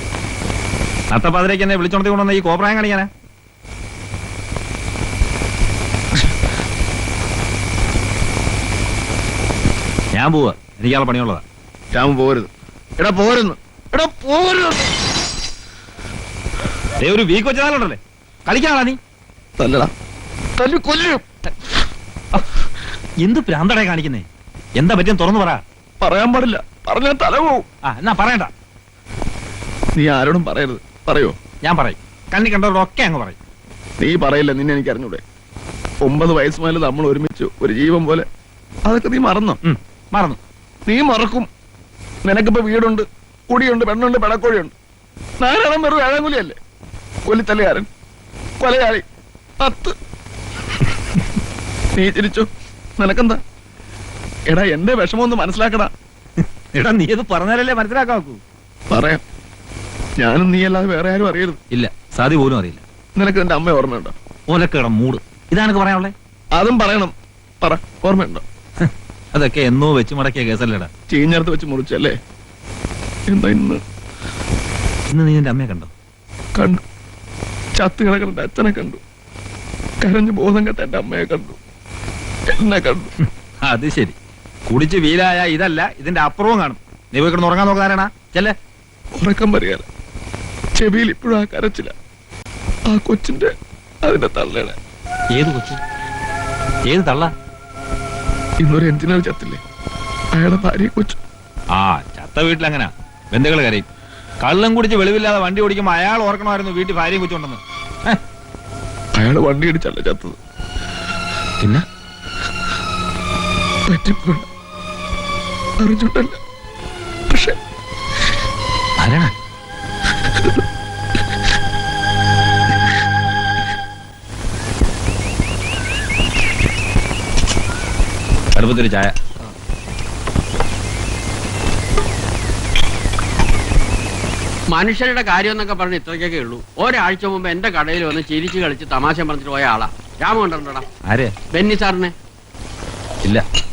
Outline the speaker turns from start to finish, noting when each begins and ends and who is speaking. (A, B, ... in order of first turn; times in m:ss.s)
0:01.1-0:03.1 A
0:10.1-0:11.4 A
0:11.9-0:14.9 B
0:17.0-0:19.0 A
0:19.6-0:19.9 B
0:20.6-0:21.5 B
0:23.2-0:24.2 A
0:24.8-0:25.6 A
0:26.0-0:27.6 B
0:27.8-0:28.5 A
0:30.0-0:31.4 B
0:31.6-0:33.4 A
0:34.0-0:35.2 B
0:36.0-0:38.2 B
0:38.8-0:39.6 B
0:39.6-0:40.4 A
0:40.9-0:41.5 B
0:42.2-0:44.7 B
0:45.4-0:46.6 B
0:47.2-0:47.9 B
0:48.6-0:49.0 B
0:49.6-0:49.9 B
0:51.9-0:53.4 B
0:54.5-0:55.9 B
0:56.7-0:58.4 A
0:58.9-0:59.2 B
1:00.2-1:01.6 B
1:01.7-1:02.8 A
1:03.2-1:04.1 B
1:04.5-1:06.1 A
1:06.5-1:08.4 B
1:08.8-1:10.9 A
1:11.1-1:12.2 B
1:13.3-1:13.8 B
1:15.1-1:15.9 A
1:16.6-1:16.8 B
1:17.7-1:19.0 B
1:20.0-1:21.6 B
1:22.6-1:23.1 B
1:23.6-1:24.2 A
1:24.7-1:28.5 A
1:29.2-1:29.8 B
1:30.8-1:31.9 B
1:32.9-1:33.5 B
1:34.0-1:34.8 B
1:35.3-1:35.8 A
1:36.9-1:37.3 A
1:38.6-1:39.6 B
1:40.3-1:41.2 B
1:41.7-1:43.8 A
1:44.4-1:48.2 A
1:49.2-1:50.4 B
1:53.9-1:54.4 B
1:55.8-1:56.4 B
1:57.3-1:57.6 B
1:59.0-1:59.3 A
2:08.5-2:09.1 A
2:14.7-2:20.8 C
2:21.1-2:21.3 A
2:21.5-2:22.1 C